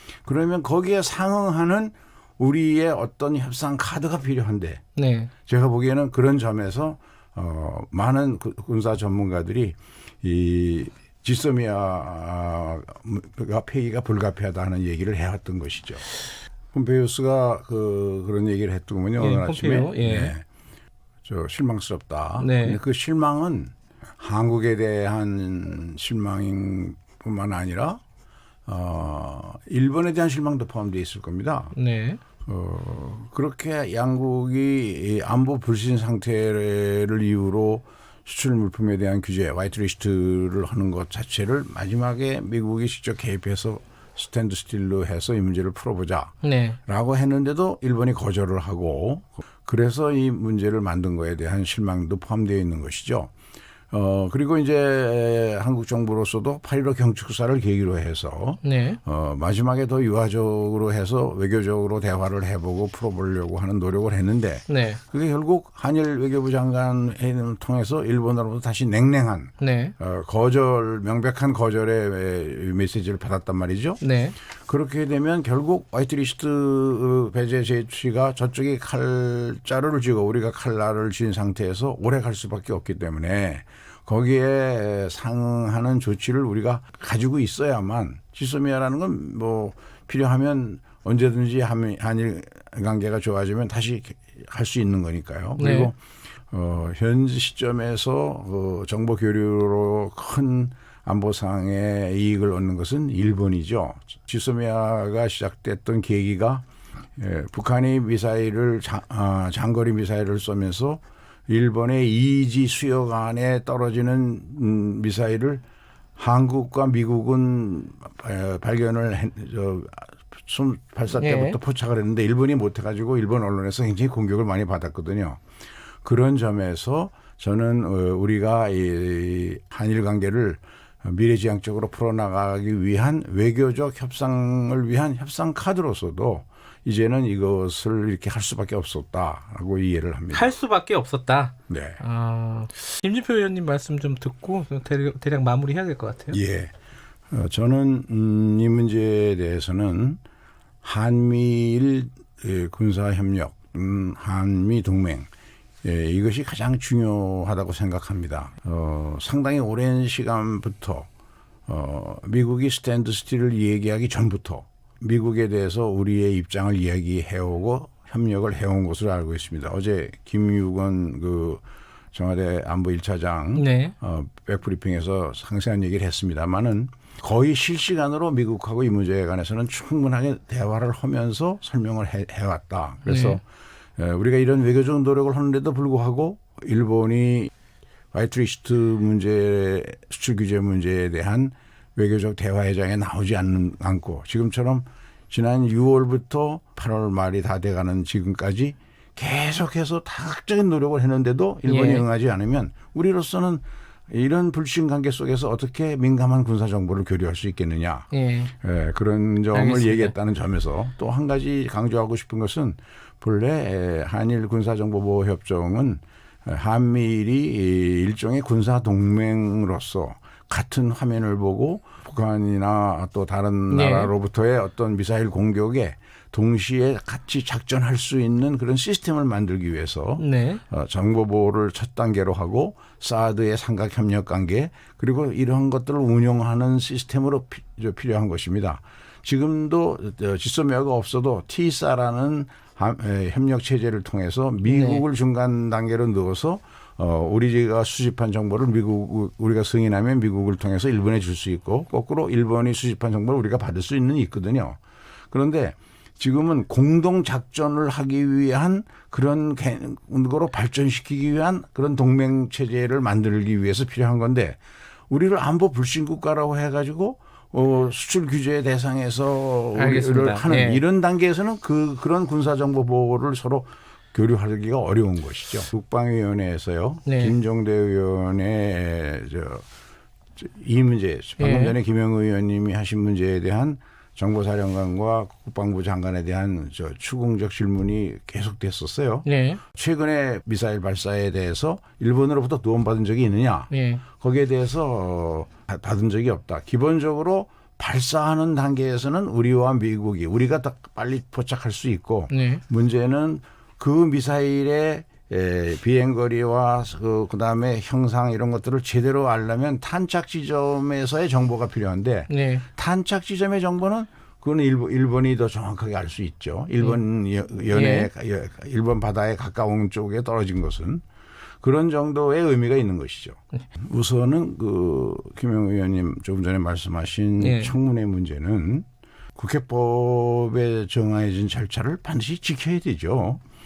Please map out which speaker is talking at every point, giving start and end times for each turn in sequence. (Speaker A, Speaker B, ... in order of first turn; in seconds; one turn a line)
Speaker A: 0.2-4.8
Speaker B: 5.0-5.3
Speaker A: 5.5-16.2
Speaker A: 16.7-20.4
Speaker B: 19.2-20.3
Speaker A: 21.2-28.0
Speaker B: 22.4-22.8
Speaker A: 28.7-31.7
Speaker B: 31.7-32.2
Speaker A: 32.5-53.3
Speaker B: 46.4-46.8
Speaker A: 53.9-74.0
Speaker B: 58.6-59.0
Speaker B: 64.7-65.0
Speaker B: 69.6-69.9
Speaker B: 74.0-74.3
Speaker A: 74.7-96.0
Speaker B: 95.6-95.9
Speaker A: 96.5-106.7
Speaker A: 107.2-115.6
Speaker A: 116.2-125.4
Speaker B: 121.1-121.6
Speaker A: 126.0-140.5
Speaker B: 140.3-146.4
Speaker A: 141.7-142.0
Speaker A: 146.3-146.7
Speaker A: 147.3-150.2
Speaker A: 150.8-155.3
Speaker A: 155.8-161.1
Speaker A: 161.7-183.4
Speaker B: 173.6-173.9
Speaker B: 183.1-183.4
Speaker A: 184.0-187.5
Speaker A: 188.1-254.8
Speaker B: 201.7-202.1
Speaker B: 208.1-208.5
Speaker B: 209.5-210.1
Speaker B: 223.7-224.1
Speaker B: 230.2-230.6
Speaker B: 244.7-245.0
Speaker A: 255.3-264.6
Speaker A: 265.1-279.7
Speaker B: 269.8-270.8
Speaker B: 277.1-277.4
Speaker A: 280.4-321.0
Speaker B: 281.4-281.8
Speaker B: 289.2-289.6
Speaker B: 293.7-294.0
Speaker B: 302.3-302.6
Speaker B: 312.3-312.6
Speaker B: 317.7-318.1
Speaker A: 321.6-333.4
Speaker B: 327.4-327.7